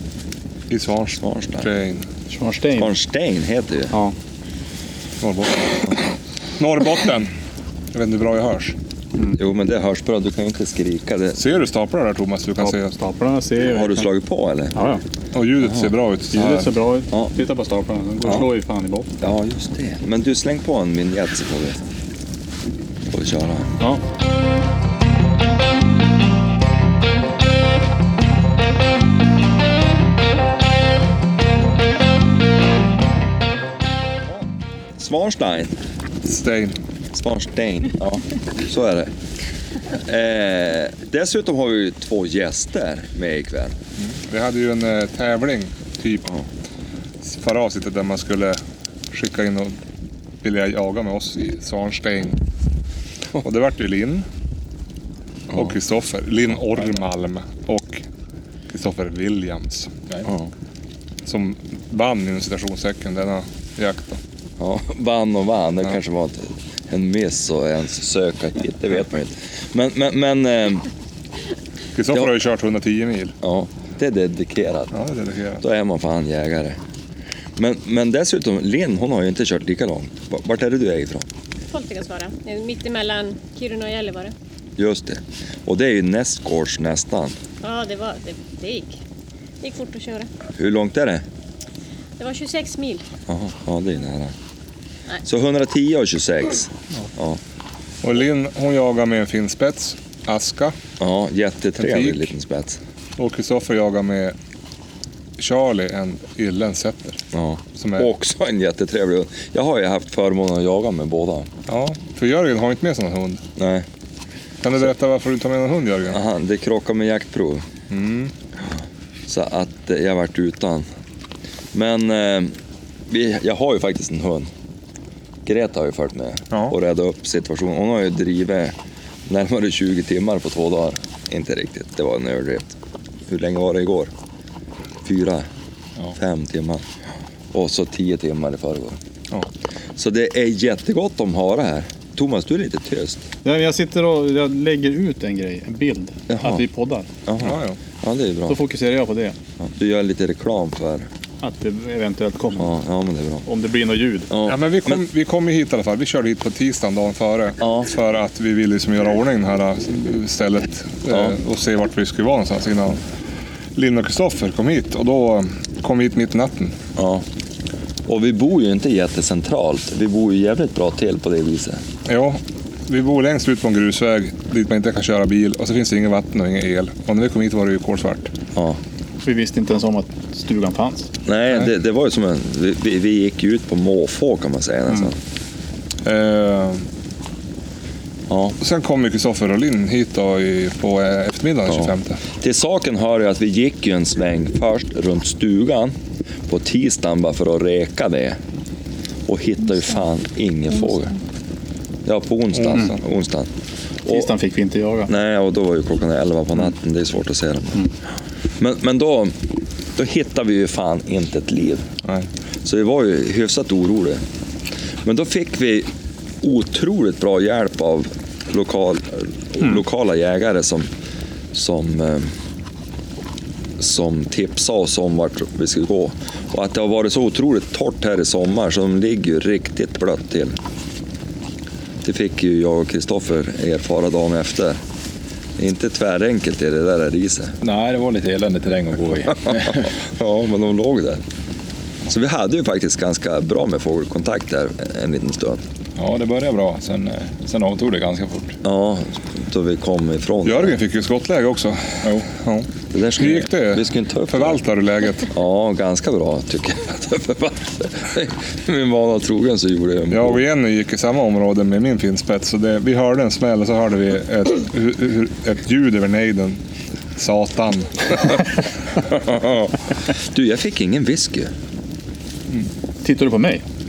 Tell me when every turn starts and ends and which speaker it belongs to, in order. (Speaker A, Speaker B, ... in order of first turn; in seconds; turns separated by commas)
Speaker A: 0.7-2.1, Speaker B: 1.2-1.7, Speaker C: 2.3-2.9, Speaker B: 2.8-3.9, Speaker A: 5.2-6.0, Speaker A: 6.6-7.3, Speaker A: 7.9-8.8, Speaker B: 9.3-11.4, Speaker A: 11.4-12.9, Speaker C: 12.6-14.1, Speaker B: 13.7-14.8, Speaker C: 14.8-15.0, Speaker A: 15.3-16.7, Speaker B: 15.6-15.9, Speaker C: 16.3-19.1, Speaker B: 19.2-21.8, Speaker B: 23.1-23.7, Speaker B: 35.0-35.7, Speaker A: 36.2-36.8, Speaker B: 37.1-39.1, Speaker B: 39.9-43.8, Speaker A: 44.0-46.3, Speaker A: 47.2-48.6, Speaker A: 49.1-49.8, Speaker A: 50.4-52.4, Speaker A: 53.4-54.3, Speaker A: 55.5-58.0, Speaker A: 58.7-60.1, Speaker B: 60.2-60.5, Speaker A: 61.3-64.2, Speaker B: 64.6-70.9, Speaker A: 72.0-73.3, Speaker B: 73.4-74.9, Speaker A: 74.9-75.6, Speaker B: 75.6-76.8, Speaker B: 77.6-81.3, Speaker D: 81.7-84.3, Speaker B: 84.8-87.4, Speaker D: 87.6-89.0, Speaker D: 89.6-90.3, Speaker B: 90.6-91.2, Speaker D: 92.2-93.0, Speaker B: 93.3-94.3, Speaker B: 95.2-97.4, Speaker A: 98.0-100.8, Speaker B: 101.0-102.8, Speaker A: 101.8-102.3, Speaker A: 103.2-104.3, Speaker A: 105.4-107.2, Speaker B: 107.3-111.5, Speaker A: 107.8-108.1, Speaker A: 111.7-113.4, Speaker B: 113.6-113.9, Speaker A: 114.6-116.2, Speaker B: 116.1-117.7, Speaker A: 117.9-118.3, Speaker B: 118.6-120.9, Speaker B: 121.7-122.5, Speaker B: 123.1-124.5, Speaker B: 125.5-128.7, Speaker B: 129.3-132.7, Speaker B: 133.3-134.1, Speaker B: 135.0-135.5, Speaker B: 136.2-136.8, Speaker B: 137.5-139.0, Speaker B: 140.0-143.2, Speaker C: 143.4-147.1, Speaker B: 146.3-146.6, Speaker B: 147.3-148.6, Speaker A: 147.4-147.8, Speaker C: 148.5-149.4, Speaker B: 149.6-151.1, Speaker C: 151.4-152.7, Speaker B: 152.6-153.4, Speaker C: 153.5-154.3, Speaker B: 154.3-155.0, Speaker A: 154.5-163.0, Speaker B: 157.6-157.9, Speaker A: 163.8-166.8, Speaker B: 167.0-167.2, Speaker B: 168.1-171.8, Speaker A: 172.1-178.3, Speaker C: 179.2-181.1, Speaker B: 181.3-185.2, Speaker A: 186.0-186.8, Speaker B: 188.3-188.6, Speaker A: 188.6-192.2, Speaker B: 191.7-195.9, Speaker B: 196.5-198.4, Speaker B: 199.3-201.2, Speaker B: 202.1-203.5, Speaker A: 202.6-202.9, Speaker C: 204.1-205.1, Speaker B: 205.1-207.8, Speaker B: 208.6-211.9, Speaker B: 212.7-214.2, Speaker B: 215.0-215.9, Speaker B: 216.4-220.9, Speaker B: 221.5-222.3, Speaker B: 223.8-230.6, Speaker B: 232.0-234.8, Speaker B: 235.6-237.6, Speaker E: 237.6-239.9, Speaker B: 239.5-241.2, Speaker B: 242.1-245.6, Speaker E: 246.0-248.6, Speaker B: 248.6-250.8, Speaker A: 250.4-255.3, Speaker B: 252.9-254.6, Speaker B: 255.3-260.4, Speaker A: 260.1-266.6, Speaker A: 267.2-268.6, Speaker B: 269.1-271.5, Speaker C: 273.0-273.6